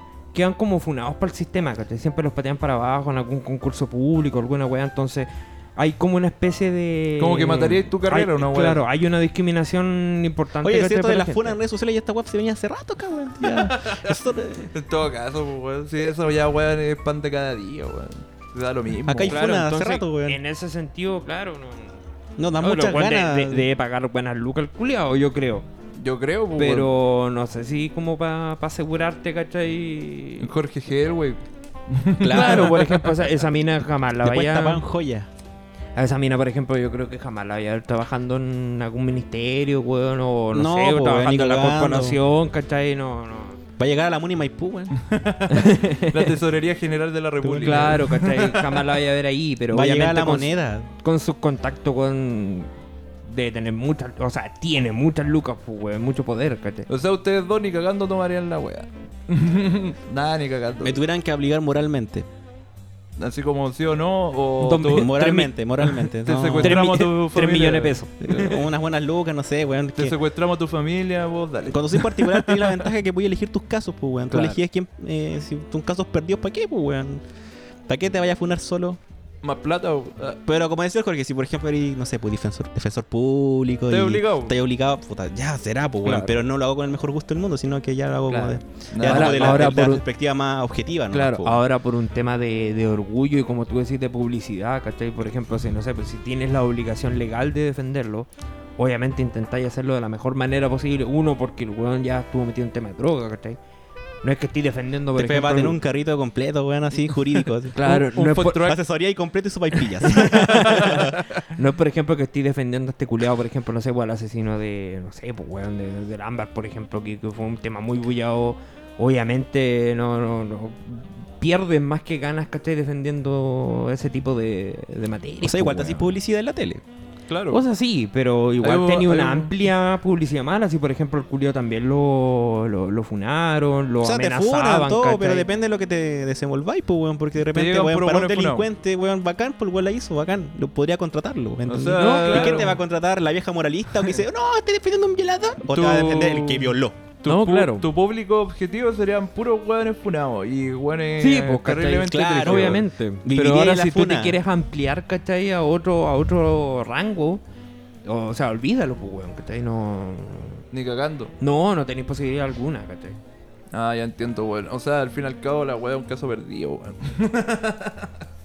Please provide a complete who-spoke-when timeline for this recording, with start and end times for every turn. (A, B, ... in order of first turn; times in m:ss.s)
0:00.3-0:11.6 A
0:07.2-0:08.8 B
0:10.6-0:14.7 C
0:13.4-0:14.2 B
0:14.7-0:19.4 B
0:19.1-0:20.4 C
0:19.3-0:22.0 A
0:22.4-0:23.7 C
0:22.6-0:25.6 A
0:26.0-0:26.9 B
0:26.6-0:30.5 A
0:30.4-0:31.4 B
0:31.9-0:33.2 B
0:32.2-0:32.8 C
0:32.3-0:34.8 A
0:34.2-0:35.3 C
0:36.0-0:43.6 A
0:40.5-0:42.2 C
0:43.8-0:44.9 C
0:45.0-0:48.8 B
0:45.5-0:46.4 A
0:47.4-0:50.5 A
0:49.7-0:50.9 C
0:51.0-0:52.7 A
0:53.2-0:56.9 A
0:56.9-1:01.0 B
1:00.8-1:02.2 C
1:03.2-1:05.1 B
1:04.6-1:06.1 A
1:04.9-1:06.8 C
1:06.2-1:08.0 B
1:06.6-1:08.6 A
1:08.2-1:10.1 C
1:10.0-1:12.2 B
1:11.7-1:17.2 C
1:14.3-1:14.6 A
1:17.9-1:19.0 C
1:19.4-1:20.4 B
1:20.4-1:31.6 C
1:23.9-1:24.5 B
1:26.0-1:26.4 A
1:28.3-1:30.0 A
1:28.9-1:29.7 B
1:31.1-1:43.6 A
1:44.2-1:45.8 A
1:45.1-1:47.8 C
1:47.7-1:48.7 A
1:47.8-1:48.8 B
1:48.5-1:51.1 C
1:49.8-2:06.1 A
1:50.4-1:51.4 B
2:05.4-2:06.8 C
2:07.3-2:07.6 B
2:07.5-2:15.4 A
2:08.6-2:09.5 B
2:14.0-2:27.0 C
2:17.5-2:18.7 B
2:21.6-2:22.8 B
2:22.0-2:22.7 A
2:25.6-2:32.8 B
2:27.2-2:27.9 A
2:31.2-2:37.4 A
2:32.0-2:34.4 C
2:38.0-2:40.6 A
2:40.7-2:41.3 B
2:41.4-2:43.2 A
2:43.7-2:48.1 B